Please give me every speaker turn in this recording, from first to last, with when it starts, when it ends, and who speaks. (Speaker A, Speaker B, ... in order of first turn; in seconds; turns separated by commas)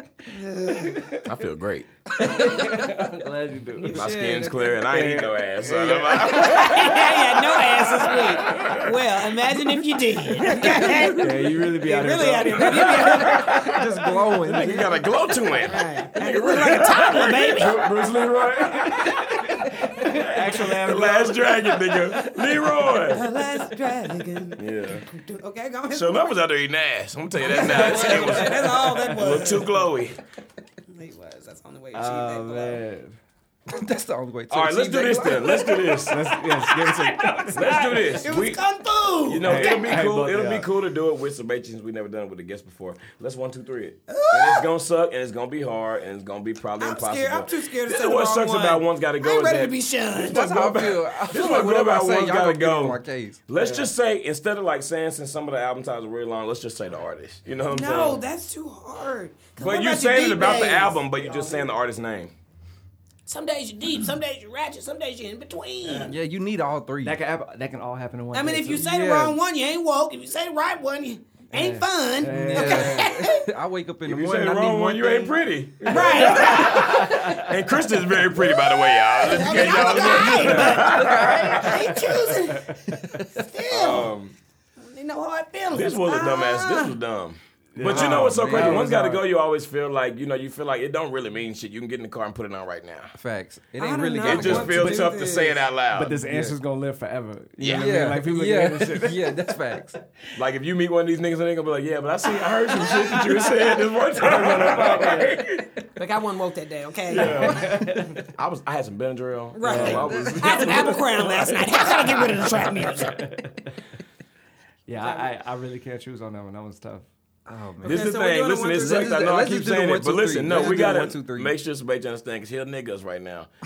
Speaker A: 0.3-1.0, Speaker B: 0.5-1.2, Speaker C: 1.2-1.9, Speaker B: 2.2-4.0, Speaker A: 3.8-4.8, Speaker C: 3.9-7.3, Speaker D: 4.0-4.5, Speaker B: 4.8-7.0, Speaker A: 6.1-13.8, Speaker C: 7.8-9.0, Speaker B: 11.1-13.8, Speaker C: 13.1-13.8, Speaker D: 13.1-15.0, Speaker C: 14.4-23.2, Speaker A: 15.7-17.9, Speaker B: 17.7-22.3, Speaker A: 23.1-26.3, Speaker C: 24.6-25.1, Speaker C: 25.9-30.2, Speaker A: 27.4-29.7, Speaker B: 27.6-29.6, Speaker A: 30.9-32.8, Speaker B: 31.9-33.1, Speaker D: 33.7-35.7, Speaker C: 34.5-36.2, Speaker A: 35.2-39.9, Speaker B: 36.0-37.6, Speaker C: 37.5-38.6, Speaker C: 39.2-49.7, Speaker B: 39.4-40.7, Speaker A: 44.1-44.7, Speaker A: 46.8-50.9, Speaker D: 50.2-53.4, Speaker C: 50.6-58.2, Speaker B: 53.5-53.9, Speaker A: 57.7-61.7, Speaker C: 59.6-62.3, Speaker A: 63.3-66.1, Speaker D: 66.0-67.2, Speaker B: 67.0-68.9, Speaker A: 68.3-73.5, Speaker D: 68.7-69.4, Speaker B: 71.5-73.2, Speaker D: 72.2-75.4, Speaker C: 74.0-82.1, Speaker A: 75.9-77.1, Speaker B: 75.9-77.5, Speaker A: 78.3-84.1, Speaker D: 80.3-81.5, Speaker B: 81.9-82.8, Speaker C: 83.7-84.3, Speaker A: 84.8-87.0, Speaker C: 85.7-93.1, Speaker B: 87.7-89.2, Speaker D: 87.8-88.9, Speaker D: 93.1-95.0, Speaker A: 93.8-95.7, Speaker C: 94.2-96.1, Speaker B: 95.9-99.5, Speaker D: 96.1-96.5, Speaker C: 97.6-97.9, Speaker D: 97.7-100.0, Speaker C: 100.3-105.8, Speaker B: 102.8-105.5, Speaker A: 106.0-107.5, Speaker C: 107.1-113.1, Speaker B: 107.2-108.2, Speaker D: 107.3-107.8, Speaker A: 109.5-113.3, Speaker B: 109.6-110.2, Speaker D: 110.1-110.8, Speaker B: 113.0-113.7, Speaker B: 114.9-117.0, Speaker A: 115.0-115.3, Speaker D: 117.5-118.1, Speaker C: 117.8-123.5, Speaker A: 117.8-119.2, Speaker D: 118.7-121.5